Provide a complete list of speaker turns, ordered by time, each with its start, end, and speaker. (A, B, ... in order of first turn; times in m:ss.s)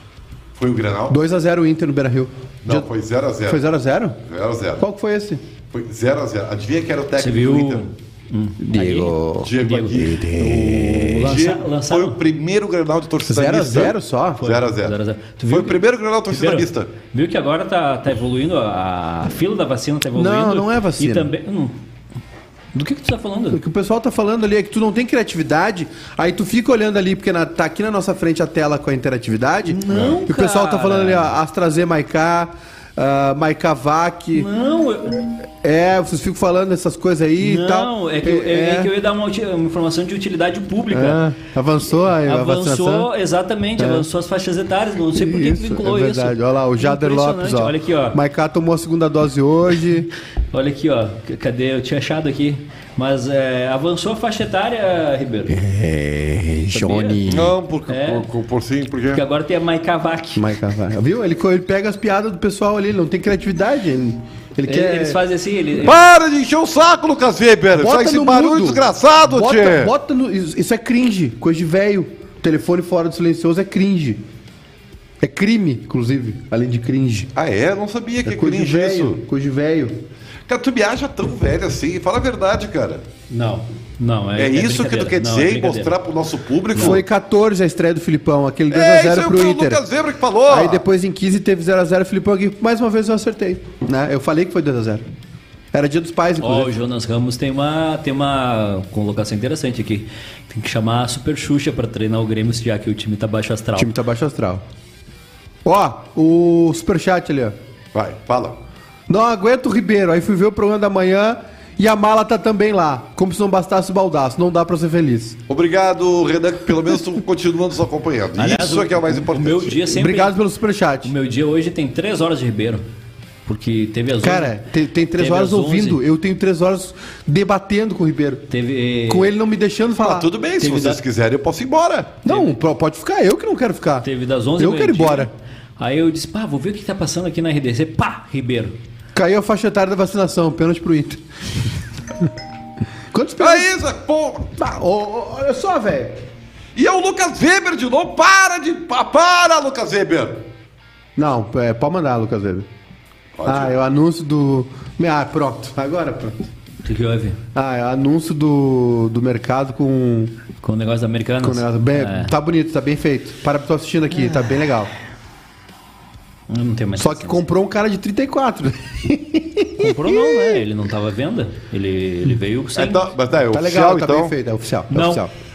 0:00.6-0:01.2 A
0:01.1-0:02.9 B
0:02.6-0:03.6 A
0:03.5-0:04.2 B
0:04.2-0:04.8 A
0:04.8-0:05.4 B
0:05.7-0:07.9 A
0:07.2-0:10.1 C
0:08.6-0:09.5 B
0:09.4-0:15.0 A
0:10.1-0:10.8 B
0:10.9-0:12.2 C
0:13.3-0:14.4 B
0:14.4-0:21.8 C
0:15.5-0:16.9 A
0:20.2-0:21.3 B
0:22.7-0:23.6 C
0:23.5-0:34.5 B
0:29.7-0:31.3 C
0:29.9-0:30.2 A
0:34.3-0:35.2 C
0:35.6-0:38.9 B
0:37.4-0:41.2 C
0:40.9-0:43.1 B
0:42.1-0:48.2 C
0:43.8-0:44.1 B
0:45.2-0:50.1 B
0:50.5-0:55.6 C
0:55.5-0:57.5 B
0:56.7-0:57.2 C
0:57.2-0:59.2 A
0:57.9-0:58.3 C
0:59.1-1:00.5 C
1:00.4-1:05.2 B
1:04.7-1:06.0 C
1:05.8-1:09.9 A
1:07.8-1:14.2 B
1:15.2-1:17.3 B
1:17.4-1:19.2 A
1:18.2-1:20.0 B
1:20.5-1:23.1 A
1:23.3-1:26.0 C
1:24.4-1:27.0 A
1:26.8-1:27.0 C
1:26.8-1:29.8 B
1:28.7-1:30.8 A
1:30.5-1:35.0 B
1:35.7-1:36.8 B
1:36.4-1:43.9 C
1:43.8-1:44.6 B
1:45.6-1:47.6 B
1:47.9-1:48.6 A
1:49.1-1:55.4 B
1:55.5-1:59.8 A
1:58.4-2:00.4 C
1:59.9-2:01.1 B
2:01.0-2:02.8 C
2:03.5-2:04.6 C
2:04.2-2:08.5 B
2:05.2-2:06.0 C
2:08.5-2:09.3 C
2:09.1-2:10.3 B
2:10.0-2:12.2 A
2:10.6-2:11.0 C
2:12.2-2:14.1 B
2:14.0-2:18.8 C
2:14.6-2:15.3 B
2:19.2-2:21.2 B
2:23.1-2:23.7 B
2:23.4-2:24.6 A
2:24.6-2:26.2 B
2:26.8-2:30.4 A
2:31.2-2:32.7 B
2:33.4-2:33.8 A
2:33.4-2:36.5 B
2:36.8-2:37.4 C
2:37.6-2:40.4 B
2:40.6-2:42.3 C
2:41.4-2:44.9 B
2:46.5-2:47.4 C
2:47.0-2:50.6 B
2:49.8-2:53.1 C
2:52.7-2:54.3 A
2:53.5-2:55.3 B
2:54.9-2:55.2 C